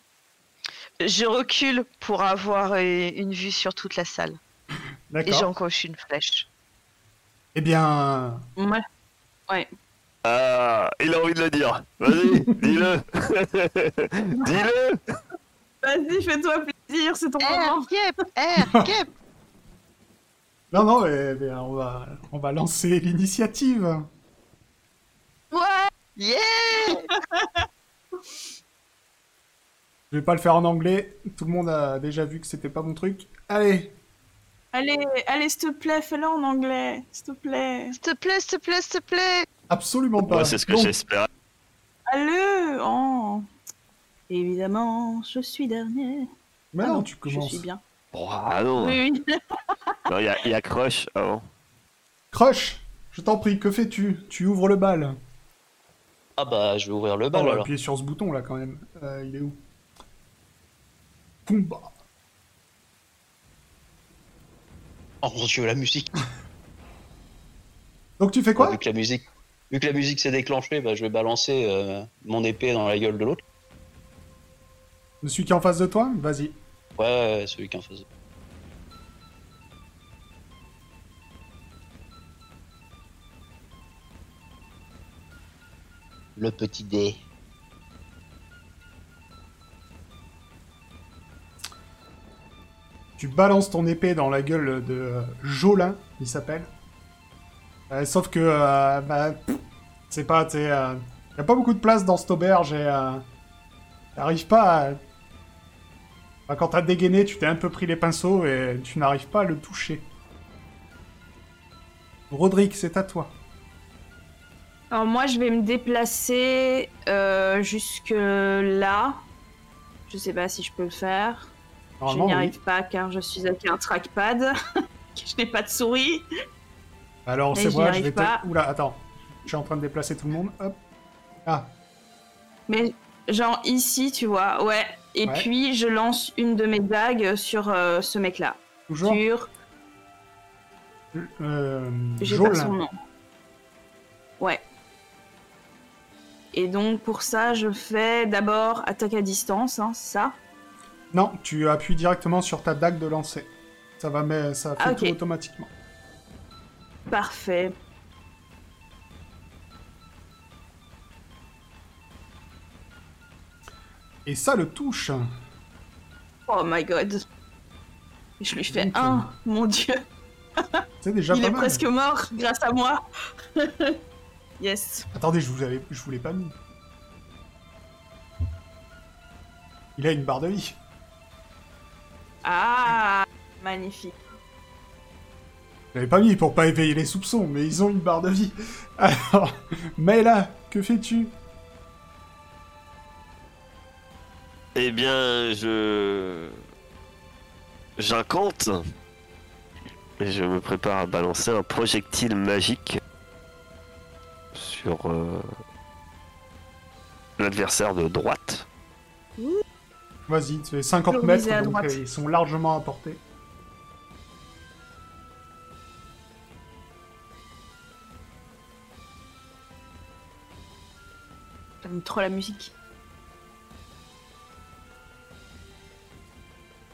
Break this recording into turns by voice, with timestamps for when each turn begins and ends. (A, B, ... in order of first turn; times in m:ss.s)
0:01.0-0:04.4 A
0:05.1-0:05.5 B
0:05.2-0:06.5 A
0:07.5-0:08.4 B
0:08.6-0:08.8 C
0:10.2-0:15.0 D
0:12.1-0:12.9 B
0:15.8-0:17.8 C
0:17.4-0:19.1 A
0:20.7-0:24.1 B
0:25.5-0:27.1 A
0:26.9-0:27.6 C
0:30.1-0:34.0 B
0:34.7-0:38.0 C
0:38.0-0:39.5 A
0:39.7-0:40.9 B
0:40.2-0:41.3 D
0:42.1-0:43.4 C
0:44.3-0:46.3 C
0:46.7-0:47.6 B
0:46.8-0:47.8 C
0:48.1-0:49.0 D
0:48.8-0:49.4 C
0:50.1-0:51.4 D
0:52.3-0:55.2 B
0:56.4-0:57.7 E
0:57.3-0:59.6 B
1:01.4-1:01.9 B
1:05.2-1:06.2 E
1:08.2-1:08.8 B
1:08.6-1:13.4 E
1:15.2-1:16.6 B
1:17.0-1:18.0 E
1:26.4-1:27.2 E
1:33.2-1:36.7 B
1:37.9-1:43.2 B
1:44.1-1:45.0 B
1:46.5-1:50.0 B
1:52.3-1:53.3 B
1:54.9-1:59.2 C
2:00.1-2:01.5 C
2:02.0-2:02.6 B
2:02.1-2:04.5 C
2:05.1-2:06.2 C
2:07.2-2:10.8 B
2:07.5-2:08.5 C
2:11.4-2:11.7 B
2:12.7-2:19.5 C
2:18.9-2:19.2 B
2:21.1-2:22.8 B
2:22.2-2:22.9 C
2:26.5-2:30.4 C
2:31.1-2:35.7 B
2:34.8-2:35.2 C
2:37.1-2:37.7 C
2:44.2-2:45.3 B
2:46.5-2:47.2 C
2:48.4-2:50.0 C
2:48.7-2:49.3 B
2:50.7-2:53.0 C
2:51.0-2:51.8 B
2:53.6-2:54.0 C
2:54.6-2:55.1 C
2:55.1-2:56.5 B
3:00.0-3:00.8 B
3:02.4-3:04.2 C
3:05.9-3:11.3 B
3:14.7-3:16.6 D
3:18.0-3:18.8 D
3:20.2-3:23.0 D
3:24.5-3:25.5 D
3:27.4-3:28.7 D
3:29.4-3:29.6 C
3:30.3-3:33.2 B
3:31.1-3:32.0 C
3:41.8-3:42.7 C